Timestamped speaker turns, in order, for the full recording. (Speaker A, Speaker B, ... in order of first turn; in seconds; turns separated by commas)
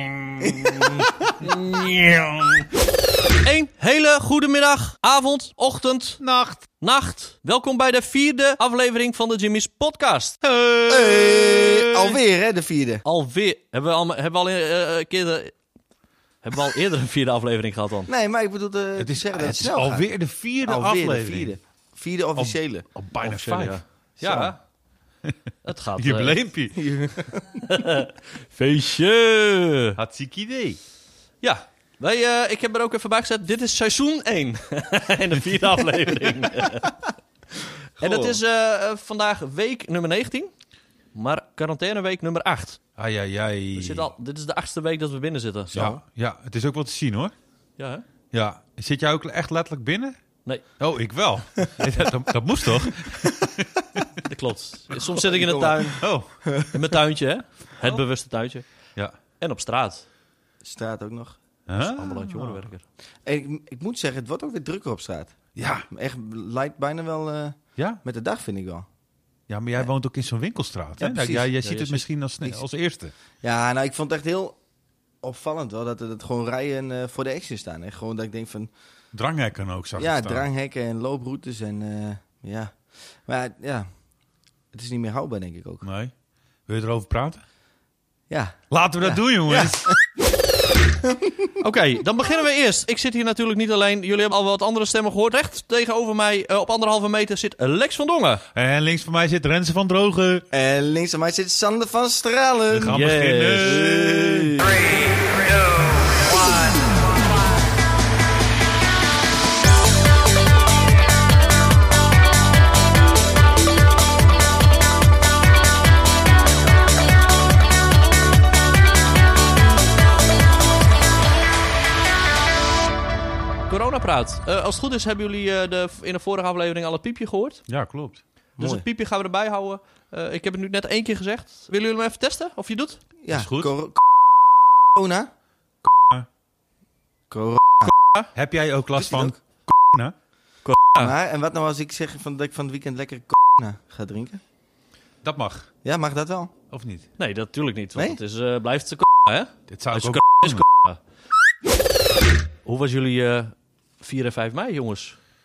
Speaker A: 0.4-1.1, Speaker B: 1.4-2.5, Speaker B: 3.4-6.2, Speaker C: 6.2-6.7, Speaker B: 6.8-10.4, Speaker C: 10.4-12.2, Speaker A: 10.9-13.0, Speaker B: 13.1-15.6, Speaker B: 16.4-18.1, Speaker A: 18.1-22.9, Speaker C: 19.0-21.5, Speaker C: 22.4-24.6, Speaker B: 23.2-24.6, Speaker B: 25.6-26.4, Speaker C: 26.0-26.8, Speaker A: 26.8-27.6, Speaker B: 27.6-30.0, Speaker C: 30.0-30.8, Speaker B: 31.4-37.1, Speaker B: 37.6-40.5, Speaker C: 38.0-38.4, Speaker B: 41.1-42.8, Speaker C: 43.0-44.1, Speaker B: 43.8-46.0, Speaker C: 45.7-47.3, Speaker B: 47.8-48.0, Speaker C: 48.3-50.2, Speaker C: 50.8-53.7, Speaker B: 54.3-56.1, Speaker A: 55.1-56.7, Speaker C: 56.0-56.5, Speaker B: 56.6-58.9, Speaker B: 59.4-60.1, Speaker A: 60.6-61.4, Speaker C: 61.7-62.6, Speaker B: 61.8-62.9, Speaker A: 63.3-68.9, Speaker C: 65.5-65.9, Speaker C: 69.5-73.1, Speaker A: 71.0-71.5, Speaker B: 71.6-72.0, Speaker A: 73.4-74.6, Speaker A: 75.2-78.7, Speaker C: 79.1-80.5, Speaker A: 80.0-83.9, Speaker A: 84.7-85.8, Speaker C: 85.8-86.1, Speaker C: 86.7-87.4, Speaker A: 88.3-90.0, Speaker C: 88.7-89.9, Speaker A: 91.1-91.5, Speaker B: 91.6-98.4, Speaker C: 98.5-100.5, Speaker A: 100.5-103.0, Speaker C: 102.7-104.5, Speaker B: 102.9-104.8, Speaker B: 123.7-127.7, Speaker C: 127.7-128.2, Speaker A: 128.6-128.8, Speaker B: 128.6-133.1, Speaker A: 133.2-134.1, Speaker C: 133.3-133.7, Speaker A: 134.9-135.3, Speaker C: 135.8-136.3, Speaker A: 137.3-137.9, Speaker C: 138.3-140.2, Speaker A: 139.0-139.4, Speaker B: 140.7-141.1, Speaker A: 141.0-144.4, Speaker C: 145.2-145.7, Speaker A: 145.8-146.5, Speaker C: 146.7-147.1, Speaker B: 147.2-151.0, Speaker C: 149.7-150.7, Speaker B: 152.6-155.2